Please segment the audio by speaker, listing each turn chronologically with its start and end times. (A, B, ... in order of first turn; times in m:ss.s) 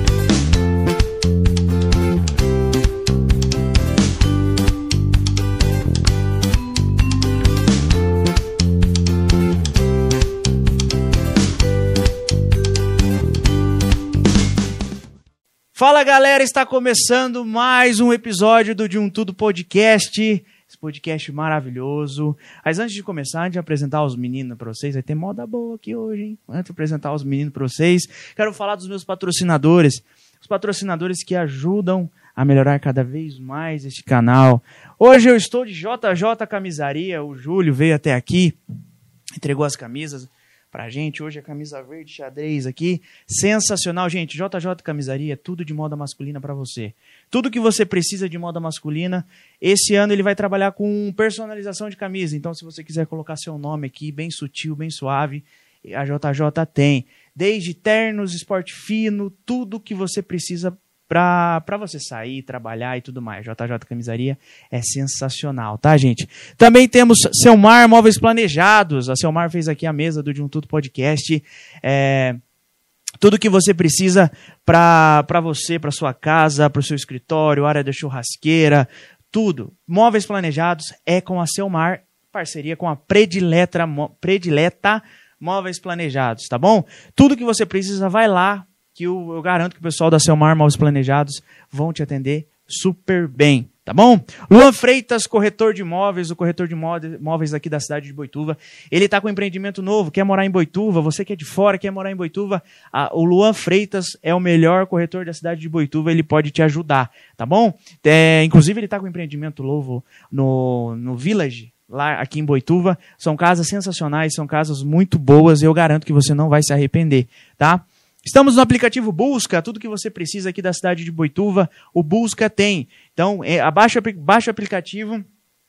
0:15.8-0:38.6 A
0:39.4-1:12.4 A
1:13.2-2:05.2 A